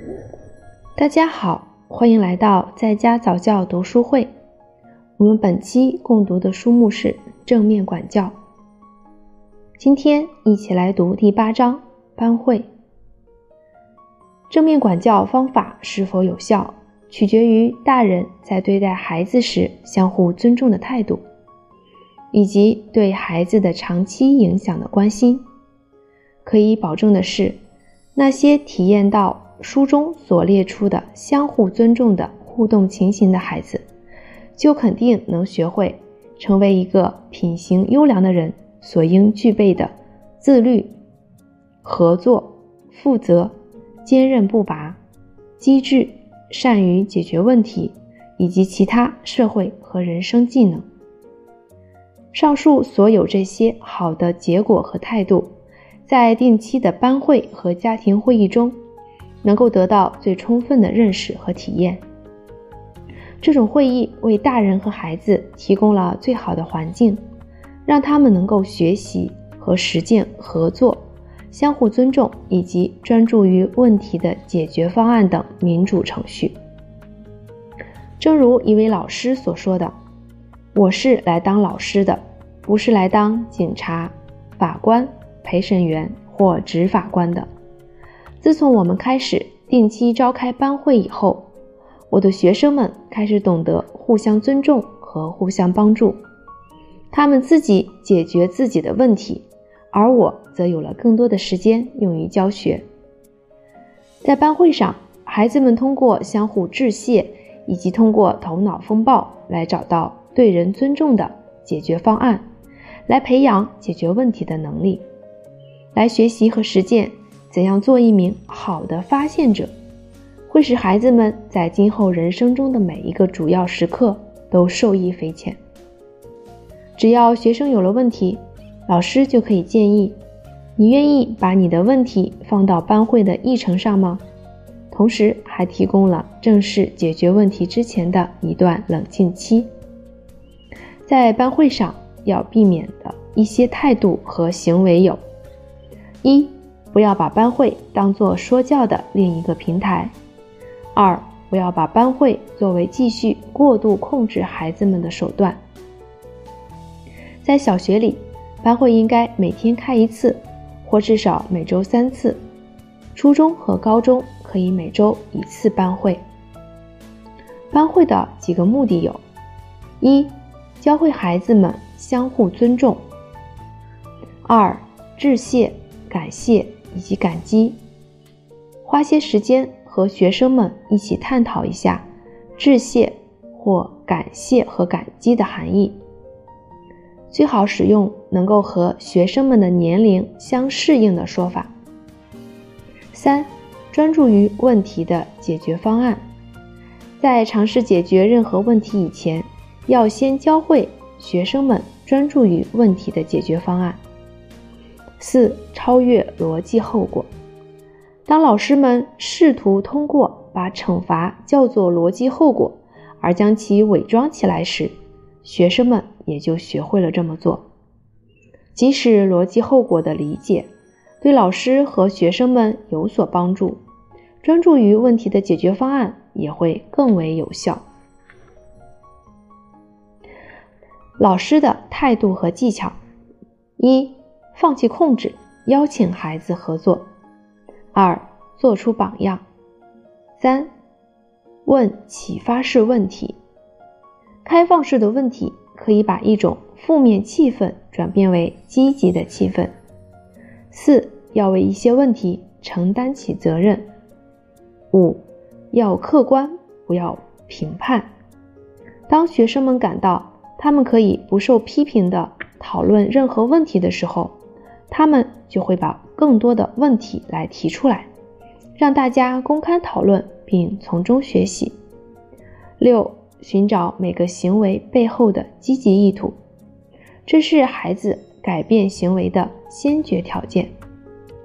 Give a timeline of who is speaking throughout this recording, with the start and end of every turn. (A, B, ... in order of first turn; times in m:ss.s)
0:01.0-0:04.3 A
0:05.2-0:08.4 A
0:09.8-0:12.7 A
0:14.5-0:21.2 A
0:22.3-0:25.4 A
0:26.4-0:27.6 A
0:28.2-0:33.8 A
0:34.6-0:40.9 A
0:41.8-0:43.5 A
0:44.0-0:45.0 A
0:45.6-0:50.8 A
0:52.3-0:55.5 A
0:56.1-0:58.8 A
0:59.4-1:02.0 A
1:03.4-1:07.2 A
1:07.9-1:16.5 A
1:18.2-1:19.9 A
1:20.7-1:27.5 A
1:28.4-1:31.5 A
1:32.1-1:36.2 A
1:37.1-1:42.8 A
1:44.2-1:52.4 A
1:53.1-1:55.0 A
1:56.0-1:59.7 A
2:00.5-2:05.6 A
2:07.0-2:10.2 A
2:10.8-2:14.2 A
2:14.9-2:19.7 A
2:21.1-2:25.2 A
2:26.2-2:30.1 A
2:30.9-2:35.6 A
2:37.4-2:42.4 A
2:43.2-2:46.2 A
2:47.7-2:49.2 A
2:50.0-2:53.0 A
2:54.4-2:57.8 A
2:58.8-3:02.0 A
3:02.6-3:06.0 A
3:07.3-3:11.7 A
3:13.1-3:16.2 A
3:17.2-3:24.0 A
3:25.2-3:27.3 A
3:28.3-3:34.9 A
3:35.4-3:37.7 A
3:38.8-3:40.7 A
3:41.2-3:43.8 A
3:44.4-3:47.8 A
3:51.2-3:53.0 A
3:53.8-3:57.1 A
3:57.9-3:59.4 A
4:00.4-4:00.7 A
4:01.6-4:03.4 A
4:04.4-4:09.7 A
4:10.7-4:13.8 A
4:14.9-4:18.1 A
4:19.1-4:24.4 A
4:24.9-4:28.1 A
4:28.8-4:31.8 A
4:32.8-4:36.4 A
4:37.3-4:40.7 A